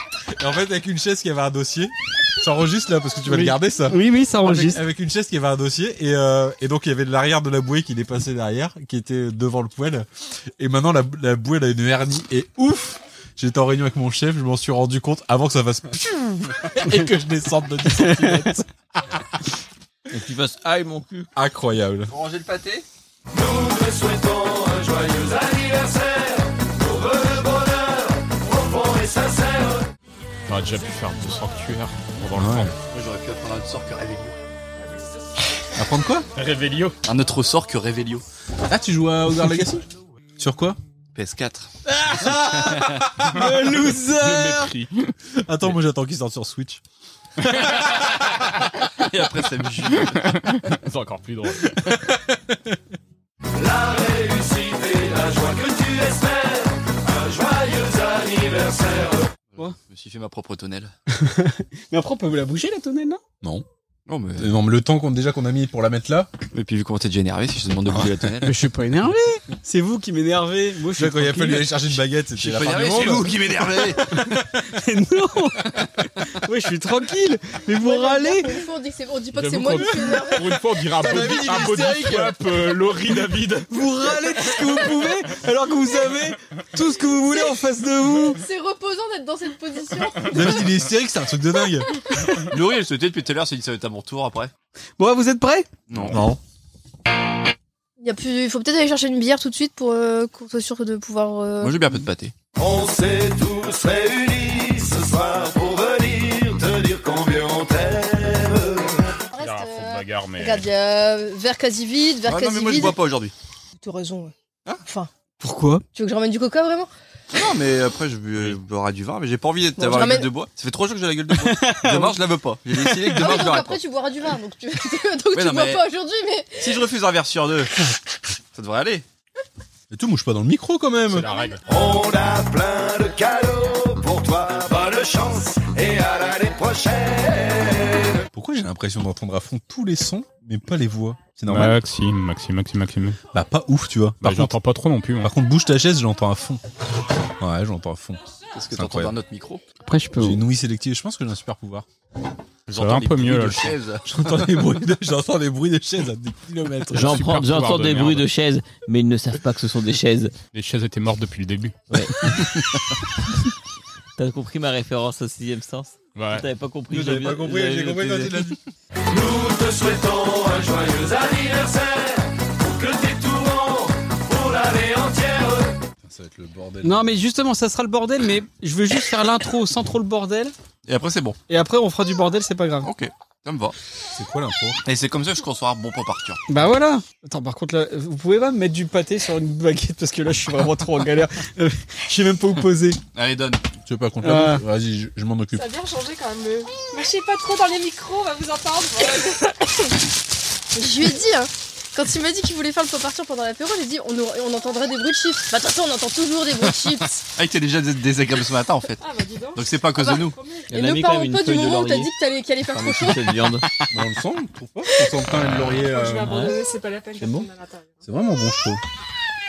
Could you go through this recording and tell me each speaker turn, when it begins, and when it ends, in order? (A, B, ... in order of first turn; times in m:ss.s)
0:00.3-0:10.1 A
0:03.3-0:04.8 B
0:10.6-0:18.7 A
0:18.2-0:18.4 B
0:20.1-0:21.3 C
0:21.4-0:22.1 A
0:22.1-0:22.8 D
0:23.9-0:24.6 E
0:30.5-0:32.8 F
0:32.4-0:32.7 A
0:32.8-0:34.4 D
0:35.8-0:36.3 A
0:36.4-0:37.0 F
0:37.0-0:38.2 D
0:38.7-0:39.9 A
0:40.4-0:40.8 A
0:41.2-0:41.7 D
0:41.9-0:44.7 B
0:42.2-0:43.0 D
0:43.3-0:45.1 F
0:45.4-0:46.8 A
0:49.0-0:50.7 D
0:50.4-0:52.1 F
0:53.8-0:56.0 E
0:59.6-1:00.9 D
1:01.1-1:03.2 B
1:04.1-1:04.6 D
1:04.4-1:06.3 A
1:06.5-1:08.6 D
1:08.4-1:11.8 B
1:11.0-1:13.6 A
1:12.4-1:14.4 D
1:14.6-1:15.8 B
1:16.4-1:18.6 B
1:17.8-1:20.6 G
1:19.4-1:23.7 F
1:21.0-1:22.4 A
1:23.7-1:28.4 B
1:27.3-1:27.6 G
1:28.3-1:30.7 G
1:30.3-1:31.9 A
1:32.4-1:34.5 D
1:35.0-1:35.7 B
1:35.9-1:36.2 D
1:36.1-1:36.4 A
1:38.0-1:41.8 G
1:41.6-1:42.3 D
1:42.6-1:48.9 E
1:49.3-1:53.0 G
1:49.4-1:50.7 F
1:52.3-1:53.3 D
1:53.8-1:54.3 G
1:55.4-1:55.8 B
1:55.9-1:56.9 G
1:57.3-2:03.8 D
1:59.8-2:00.3 G
2:01.4-2:02.2 B
2:03.2-2:06.8 G
2:05.3-2:05.8 D
2:06.6-2:07.7 D
2:08.5-2:09.1 D
2:09.9-2:11.4 A
2:11.1-2:11.6 F
2:11.7-2:18.2 E
2:18.3-2:21.8 A
2:21.5-2:23.2 F
2:23.3-2:24.6 A
2:24.2-2:25.3 F
2:25.2-2:26.6 A
2:27.4-2:28.2 A
2:28.5-2:29.6 D
2:28.7-2:29.2 A
2:29.9-2:30.4 B
2:30.2-2:31.9 A
2:32.7-2:34.6 D
2:32.8-2:33.8 F
2:34.1-2:37.2 A
2:36.9-2:38.3 F
2:36.9-2:40.4 C
2:40.5-2:41.8 F
2:41.9-2:42.4 C
2:44.2-2:48.6 C
2:46.2-2:46.5 F
2:46.9-2:48.6 A
2:56.0-2:57.1 A
2:56.8-3:00.5 B
3:00.9-3:01.4 D
3:01.5-3:02.9 B
3:02.8-3:03.8 D
3:04.1-3:04.8 A
3:04.8-3:06.4 D
3:06.5-3:13.0 B
3:13.1-3:13.7 D
3:13.9-3:15.7 A
3:14.2-3:14.6 B
3:15.5-3:19.6 H
3:20.8-3:27.2 G
3:27.4-3:29.0 D
3:29.0-3:30.7 H
3:29.6-3:30.4 D
3:30.0-3:33.4 G
3:30.7-3:32.1 C
3:32.7-3:33.7 C
3:33.9-3:36.6 A
3:35.7-3:38.0 H
3:37.2-3:37.5 A
3:38.0-3:38.8 A